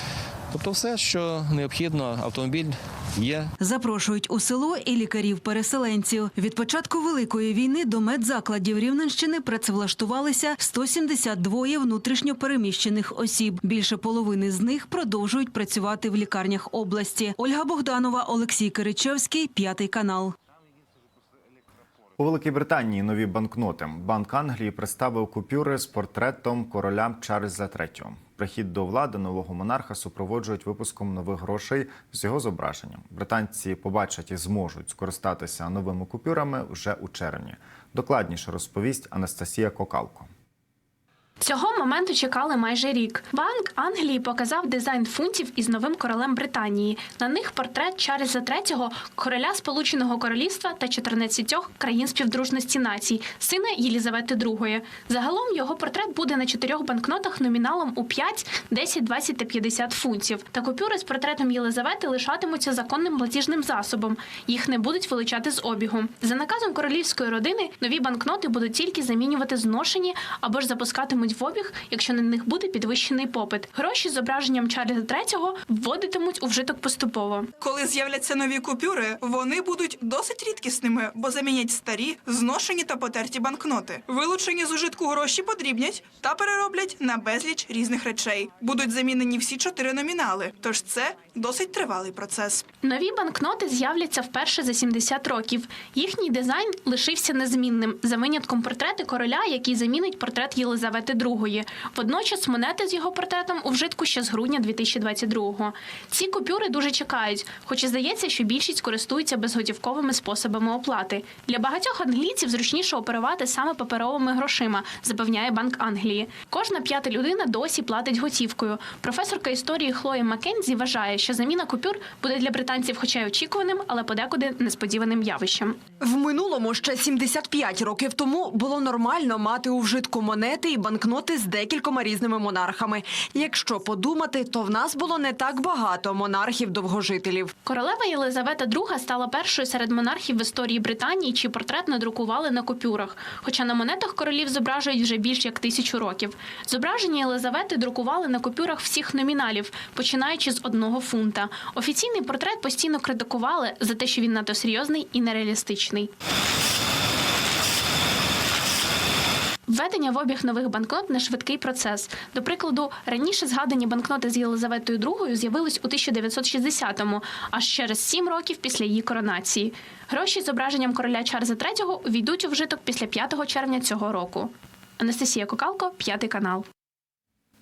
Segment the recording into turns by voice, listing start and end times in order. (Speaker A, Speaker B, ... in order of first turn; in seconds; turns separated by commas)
Speaker A: 0.5-3.5, Speaker B: 3.6-20.3, Speaker C: 22.2-40.3, Speaker D: 41.4-77.5, Speaker E: 77.6-92.7, Speaker D: 92.8-125.8, Speaker F: 126.0-137.5, Speaker D: 137.6-156.1, Speaker D: 159.7-176.7